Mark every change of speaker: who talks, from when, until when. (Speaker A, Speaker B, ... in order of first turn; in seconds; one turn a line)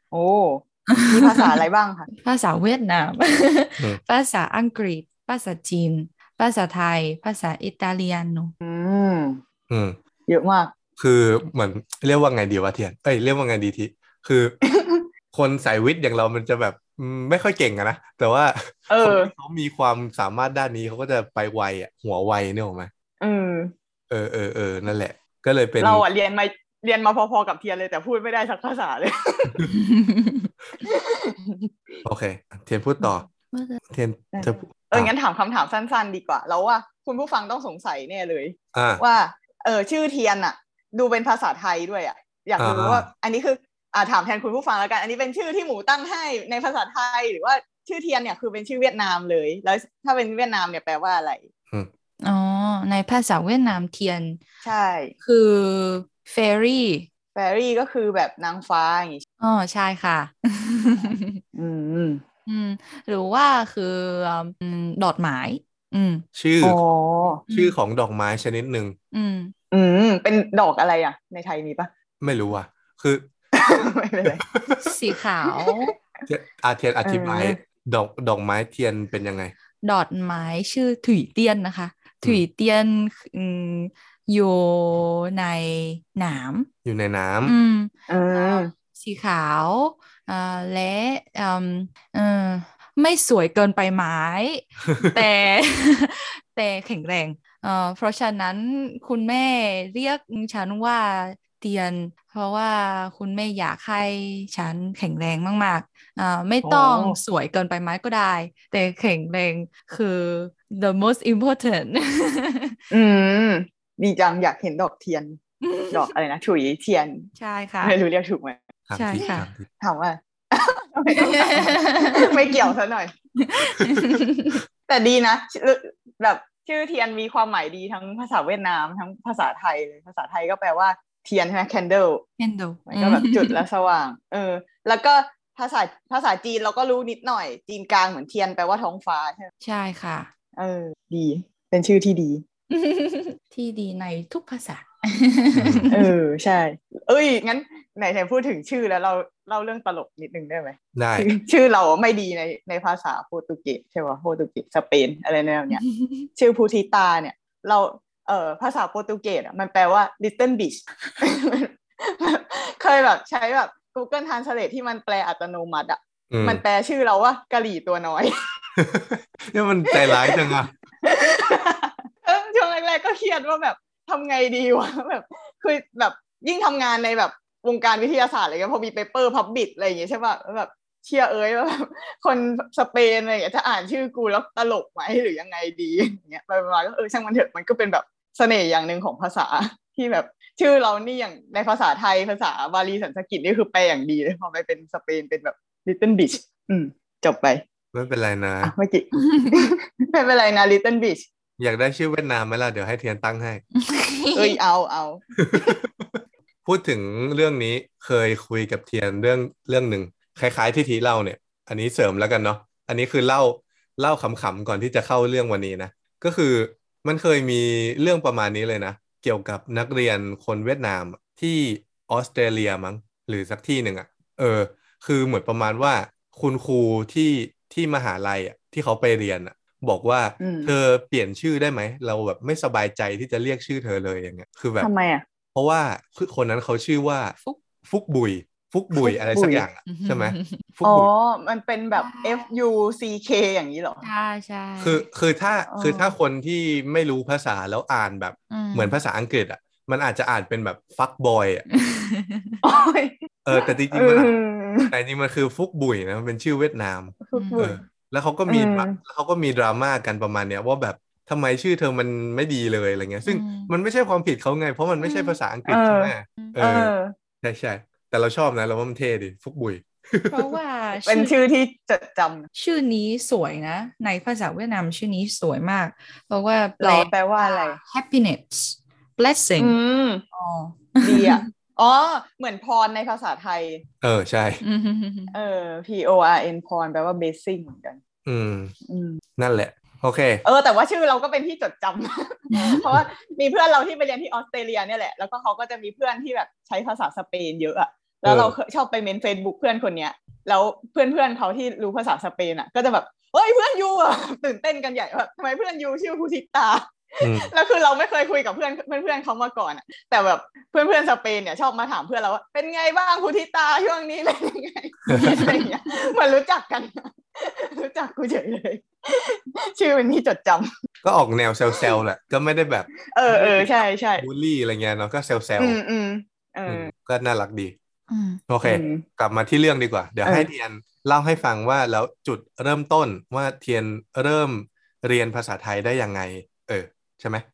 Speaker A: 0.1-2.1
Speaker B: 0.9-1.6
Speaker B: 2.1-8.5
Speaker A: 8.6-9.4
Speaker C: 9.7-10.0
Speaker A: 10.3-10.7
Speaker C: 11.0-14.6
Speaker A: 14.6-15.1
Speaker C: 15.3-22.9
Speaker A: 18.9-19.3
Speaker A: 23.2-23.7
Speaker C: 24.1-26.1
Speaker A: 25.8-29.7
Speaker B: 29.7-30.5
Speaker A: 30.8-32.0
Speaker C: 32.0-33.3
Speaker B: 33.3-33.8
Speaker C: 33.9-35.1
Speaker A: 34.3-51.5
Speaker C: 38.7-39.0
Speaker C: 42.6-43.1
Speaker B: 52.2-54.4
Speaker A: 54.6-55.1
Speaker B: 55.2-57.1
Speaker A: 57.4-59.2
Speaker B: 59.4-61.4
Speaker A: 61.5-62.2
Speaker B: 62.5-66.2
Speaker C: 66.3-66.8
Speaker A: 66.6-67.4
Speaker B: 67.5-67.8
Speaker C: 67.5-69.0
Speaker B: 69.1-69.5
Speaker A: 69.7-71.9
Speaker C: 72.2-73.3
Speaker A: 73.5-74.4
Speaker C: 74.3-74.9
Speaker B: 74.8-75.9
Speaker A: 75.5-75.7
Speaker C: 76.3-79.5
Speaker A: 77.0-77.6
Speaker B: 79.8-86.7
Speaker C: 86.8-87.6
Speaker B: 87.5-112.8
Speaker A: 88.1-88.7
Speaker A: 106.6-107.2
Speaker A: 112.9-115.4
Speaker B: 115.6-116.1
Speaker A: 115.9-117.3
Speaker B: 117.4-118.0
Speaker A: 117.8-118.6
Speaker C: 118.9-119.7
Speaker B: 118.9-119.5
Speaker A: 119.8-123.1
Speaker B: 121.1-122.7
Speaker B: 123.4-124.6
Speaker C: 123.8-124.2
Speaker A: 124.9-132.2
Speaker B: 132.4-133.6
Speaker A: 132.9-139.5
Speaker B: 139.6-140.3
Speaker A: 140.6-142.4
Speaker B: 142.7-146.1
Speaker C: 145.6-145.9
Speaker A: 145.9-168.3
Speaker C: 150.9-151.3
Speaker B: 155.8-156.3
Speaker C: 166.3-166.6
Speaker C: 168.8-170.8
Speaker A: 169.9-170.4
Speaker A: 171.0-197.6
Speaker C: 197.9-198.7
Speaker A: 198.6-201.2
Speaker C: 201.6-203.6
Speaker B: 203.8-204.6
Speaker A: 204.3-205.7
Speaker C: 205.4-234.9
Speaker A: 230.4-230.7
Speaker A: 234.8-235.2
Speaker C: 235.5-241.1
Speaker A: 238.9-239.7
Speaker B: 239.9-240.6
Speaker A: 240.8-244.0
Speaker B: 242.0-242.5
Speaker B: 244.0-245.1
Speaker C: 244.8-251.7
Speaker A: 245.7-246.1
Speaker B: 248.5-249.0
Speaker B: 251.7-252.6
Speaker A: 252.6-254.9
Speaker C: 253.4-254.3
Speaker C: 254.9-270.5
Speaker A: 257.2-257.8
Speaker B: 257.3-257.7
Speaker A: 258.5-259.0
Speaker B: 263.3-263.7
Speaker B: 265.0-265.4
Speaker A: 265.7-267.1
Speaker B: 270.3-271.3
Speaker A: 271.1-272.5
Speaker B: 272.6-279.8
Speaker A: 276.8-277.8
Speaker A: 279.6-280.2
Speaker B: 280.3-281.5
Speaker A: 281.0-283.8
Speaker C: 284.0-284.6
Speaker B: 284.6-285.3
Speaker A: 285.3-288.0
Speaker C: 288.3-288.7
Speaker A: 288.9-289.2
Speaker C: 289.4-290.4
Speaker A: 290.4-320.7
Speaker B: 292.5-292.8
Speaker C: 298.3-298.6
Speaker C: 307.2-307.5
Speaker C: 315.1-315.6
Speaker B: 315.1-315.5
Speaker C: 321.0-325.8
Speaker A: 323.1-324.3
Speaker A: 325.6-326.9
Speaker C: 326.7-327.8
Speaker B: 328.1-328.4
Speaker C: 328.5-337.4
Speaker A: 328.6-329.0